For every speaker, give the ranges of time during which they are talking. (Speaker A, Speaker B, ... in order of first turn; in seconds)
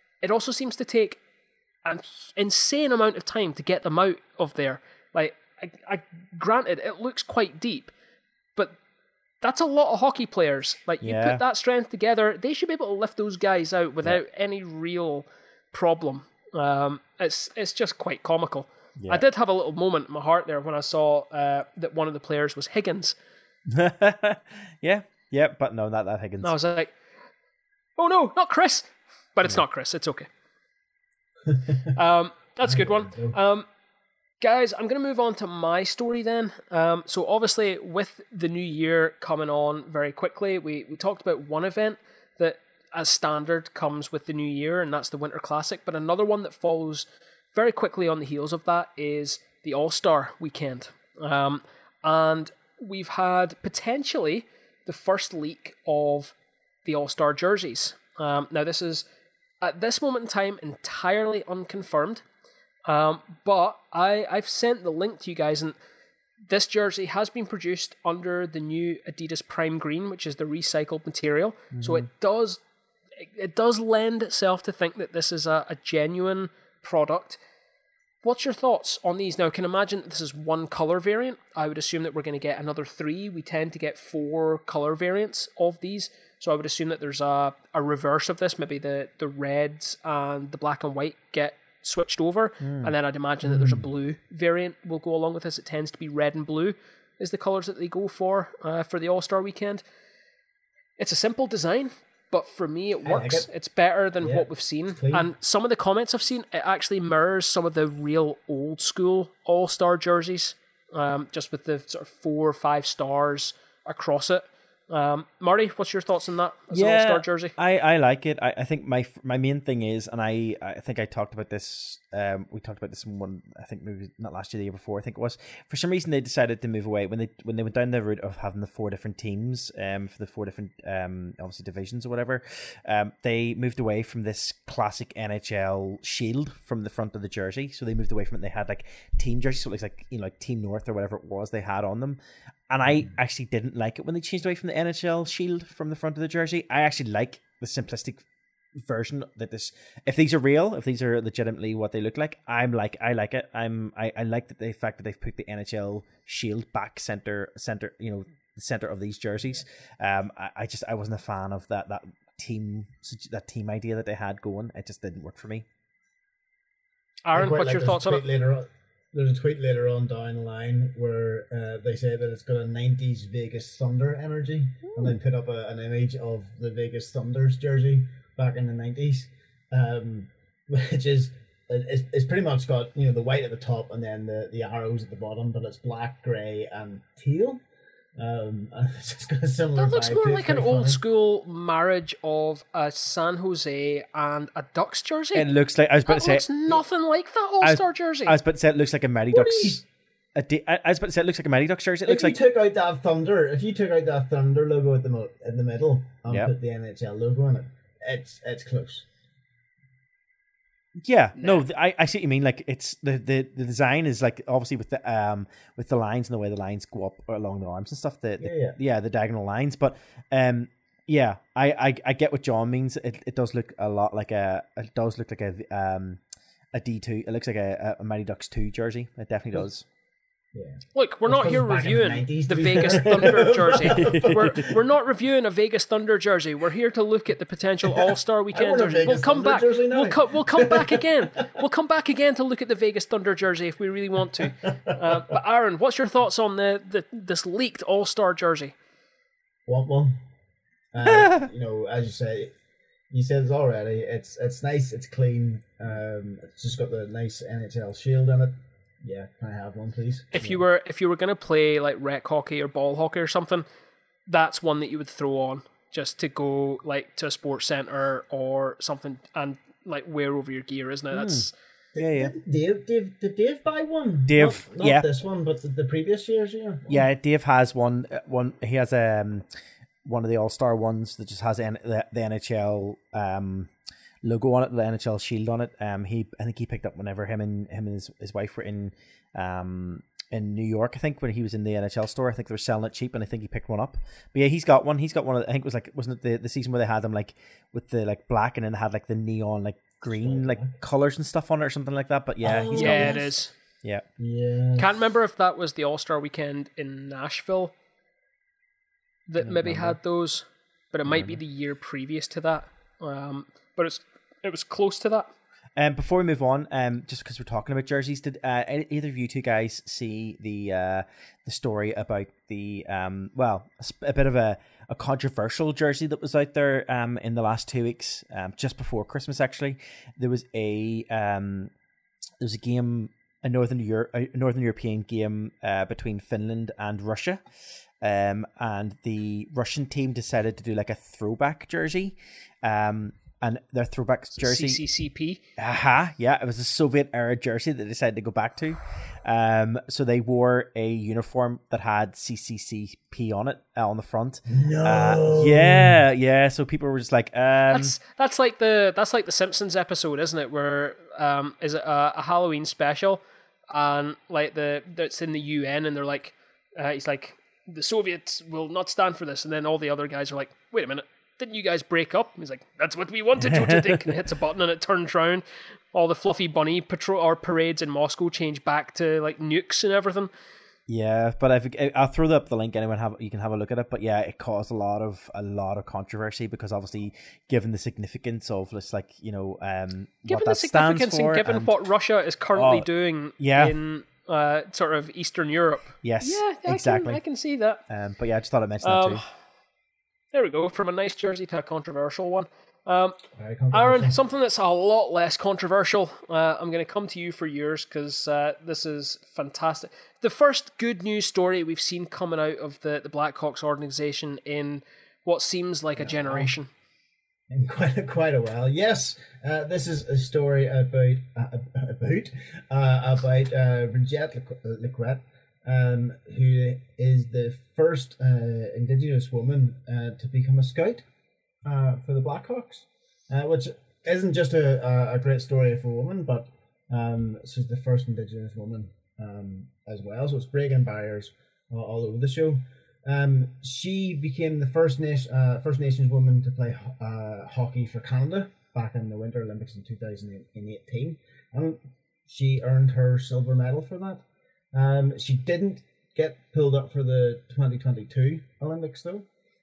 Speaker A: 0.2-1.2, 1.9-7.9, 9.4-23.1, 26.4-26.9, 28.0-30.3, 31.8-33.7, 34.4-56.3, 56.9-59.0, 59.6-62.2, 62.9-65.8, 66.5-72.6, 73.2-77.4, 78.2-99.8, 101.0-117.5, 167.2-168.2, 189.8-195.5, 196.1-198.4, 211.4-211.6, 230.9-248.7, 260.3-263.6, 264.3-271.5, 302.7-303.5, 304.8-307.7, 309.3-315.3, 344.4-345.4, 357.7-380.3, 390.3-397.8, 398.8-399.2, 400.3-403.2, 403.7-416.7
Speaker B: 11.0-11.4, 23.7-26.5, 71.7-72.0, 92.6-92.9, 116.7-148.2, 148.8-165.7, 195.3-196.8, 197.6-199.8, 200.4-202.4, 211.0-226.2, 226.7-229.9, 232.8-233.1, 233.9-234.7, 251.1-251.4, 271.1-272.3, 274.3-275.1, 276.9-279.5, 280.1-283.7, 284.2-303.2, 309.4-310.0, 311.1-311.4, 315.8-331.7, 332.4-337.4, 338.0-344.8, 345.6-357.9, 373.4-374.1, 380.9-391.7, 392.6-392.9, 393.4-393.8, 396.0-397.2, 397.9-399.2
Speaker C: 31.5-31.9, 32.6-33.4, 93.5-93.8, 103.0-103.5, 104.2-105.3, 167.3-187.6, 188.2-191.0, 199.3-199.8, 202.1-209.1, 218.4-218.8, 230.5-234.8, 237.8-241.3, 244.4-245.3, 249.7-250.2, 250.9-252.6, 253.1-260.6, 271.9-277.1, 300.1-300.8, 302.4-303.3, 304.2-304.9, 354.5-355.9, 403.4-404.2, 416.0-416.5, 417.5-431.0, 431.6-459.3